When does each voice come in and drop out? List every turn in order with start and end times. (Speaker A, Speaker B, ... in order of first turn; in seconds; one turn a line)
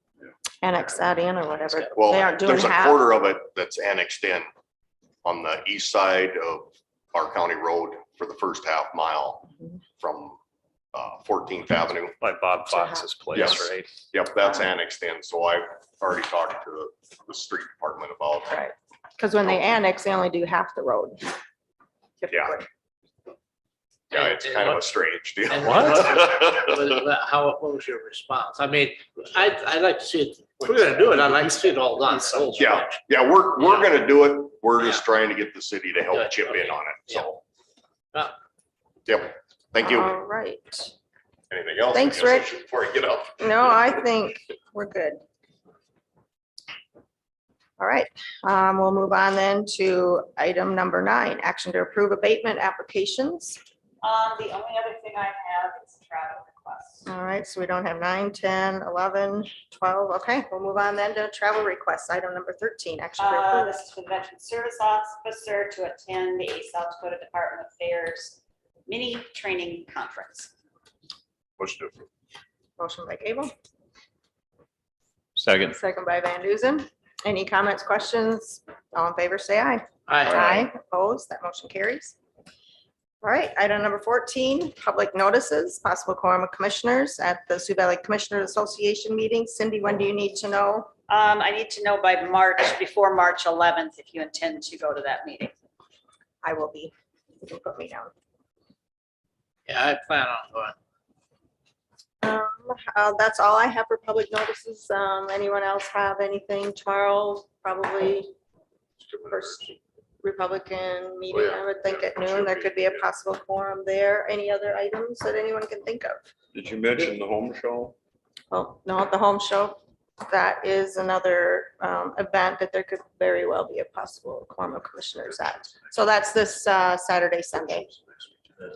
Speaker A: 0.6-3.1
Speaker B: 1.9-4.5
Speaker B: 5.2-10.4
Speaker B: 10.9-12.2
Speaker C: 12.2-13.9
Speaker B: 13.3-18.6
Speaker A: 18.5-21.4
Speaker A: 22.2-22.7
Speaker B: 24.1-26.8
Speaker D: 24.1-24.8
Speaker D: 25.5-33.0
Speaker C: 25.6-26.1
Speaker C: 31.0-32.9
Speaker B: 32.6-37.4
Speaker D: 36.1-37.3
Speaker B: 39.1-40.1
Speaker A: 39.8-40.9
Speaker B: 41.5-43.8
Speaker A: 41.9-42.5
Speaker A: 43.4-45.2
Speaker A: 47.8-53.6
Speaker E: 54.0-57.1
Speaker A: 57.1-63.8
Speaker E: 63.2-70.5
Speaker F: 71.6-72.1
Speaker A: 72.8-73.5
Speaker C: 75.4-75.8
Speaker A: 75.7-82.2
Speaker D: 80.1-80.5
Speaker F: 80.3-80.6
Speaker A: 83.2-90.9
Speaker E: 91.1-95.5
Speaker A: 96.4-98.1
Speaker D: 99.7-100.8
Speaker A: 102.2-108.3
Speaker F: 109.0-109.7
Speaker A: 109.3-109.7
Speaker A: 110.2-116.2
Speaker F: 111.3-112.9
Speaker B: 116.7-117.9
Speaker A: 118.5-127.9